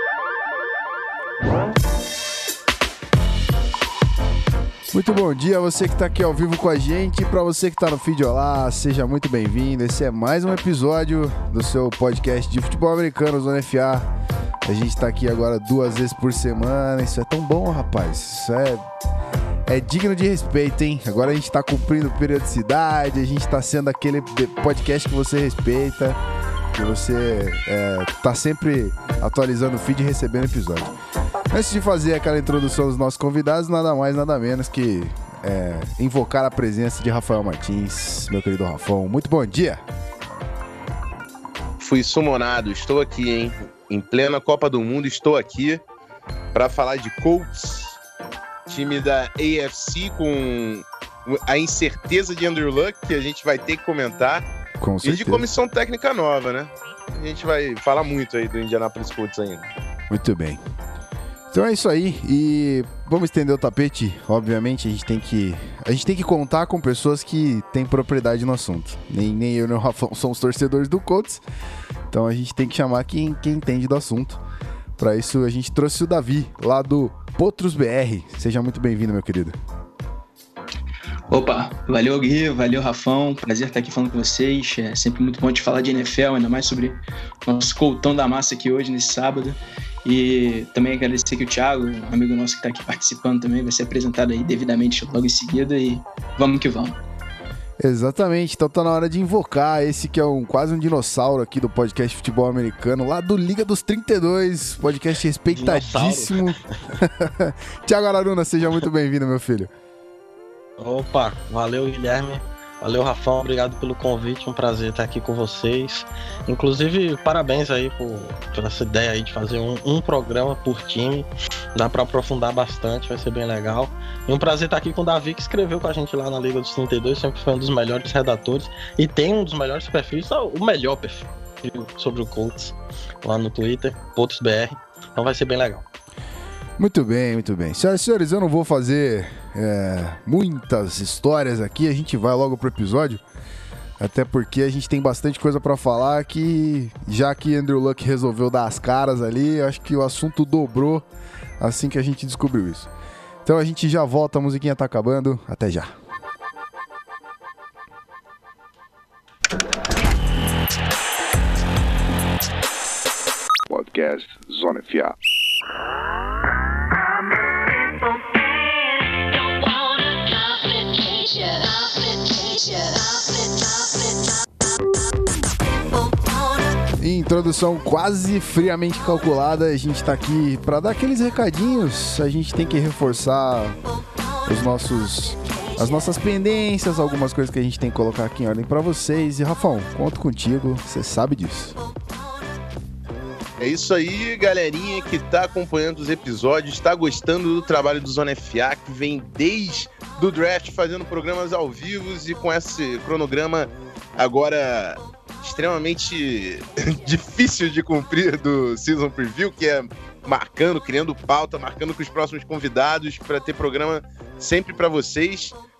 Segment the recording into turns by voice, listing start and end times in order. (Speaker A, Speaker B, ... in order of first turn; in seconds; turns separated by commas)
Speaker A: 4.9-14.1, Speaker A: 14.6-18.9, Speaker A: 19.6-26.2, Speaker A: 26.7-30.9, Speaker A: 31.5-39.8, Speaker B: 41.8-45.8, Speaker B: 46.5-48.0, Speaker B: 48.7-54.4, Speaker A: 54.8-55.5, Speaker B: 55.0-59.7, Speaker A: 60.1-60.6, Speaker A: 61.5-71.4, Speaker A: 72.1-74.4, Speaker A: 75.0-79.5, Speaker C: 81.3-97.0, Speaker A: 97.8-109.7, Speaker D: 105.5-106.7, Speaker D: 110.8-135.8, Speaker A: 136.8-143.2, Speaker A: 144.0-151.1, Speaker A: 151.6-152.9, Speaker A: 153.4-155.9, Speaker E: 163.7-165.1, Speaker E: 167.7-174.4, Speaker E: 176.1-176.6, Speaker A: 177.0-183.8, Speaker A: 184.4-191.8, Speaker B: 193.6-215.6